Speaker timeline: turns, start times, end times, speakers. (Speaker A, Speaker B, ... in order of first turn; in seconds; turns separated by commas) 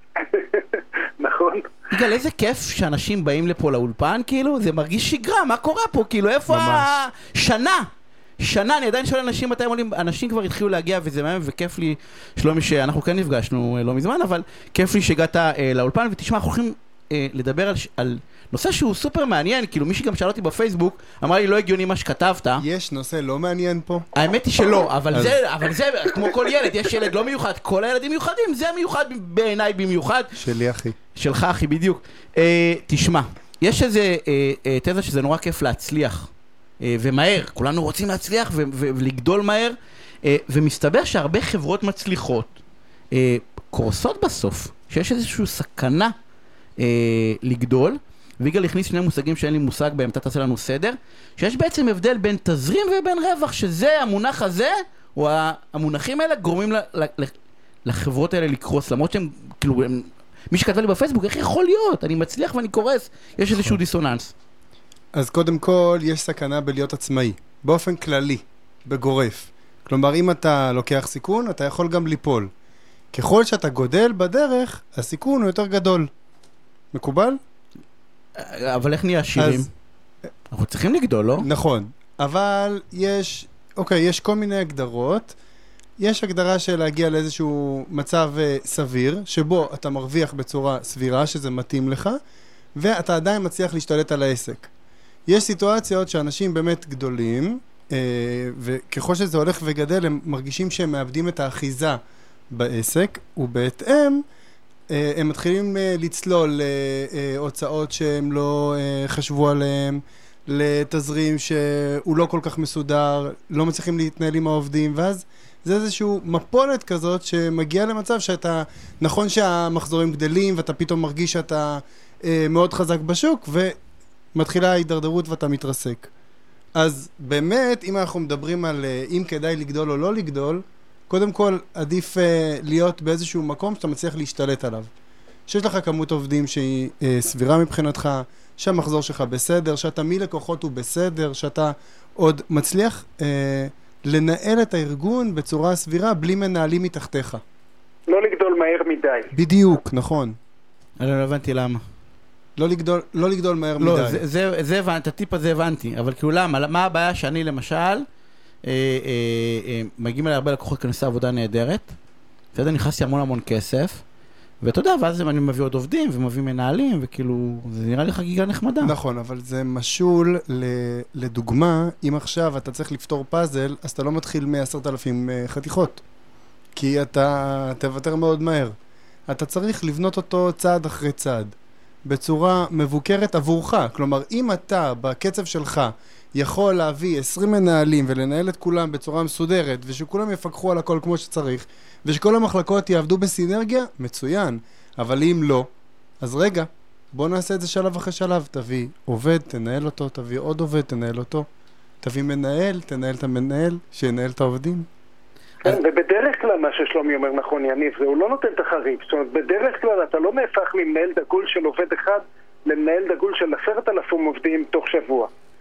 Speaker A: 0.2-2.0, Speaker B: 1.9-7.9, Speaker C: 6.5-6.9, Speaker B: 8.4-22.6, Speaker C: 22.6-24.1, Speaker B: 24.1-30.3, Speaker C: 25.1-25.4, Speaker C: 30.4-31.0, Speaker B: 31.1-36.3, Speaker B: 36.8-42.5, Speaker B: 43.1-46.1, Speaker B: 46.8-57.3, Speaker B: 57.9-64.3, Speaker C: 65.2-72.5, Speaker C: 73.1-76.1, Speaker C: 76.9-77.4, Speaker B: 78.4-79.7, Speaker C: 79.4-79.7, Speaker B: 80.5-81.5, Speaker C: 81.4-85.3, Speaker C: 86.0-92.2, Speaker C: 92.8-94.7, Speaker C: 95.3-102.0, Speaker C: 102.5-104.2, Speaker C: 104.9-123.8, Speaker C: 124.3-126.1, Speaker C: 126.8-134.9, Speaker C: 135.5-147.4, Speaker A: 148.1-149.3, Speaker C: 149.3-150.4, Speaker B: 151.0-151.8, Speaker C: 152.6-154.2, Speaker B: 153.8-158.1, Speaker B: 158.7-161.9, Speaker B: 162.5-164.0, Speaker B: 164.6-168.9, Speaker C: 168.8-176.0, Speaker C: 176.8-178.7, Speaker C: 179.3-181.5, Speaker C: 182.1-195.7, Speaker C: 196.2-201.5, Speaker C: 202.0-204.9, Speaker A: 205.6-215.3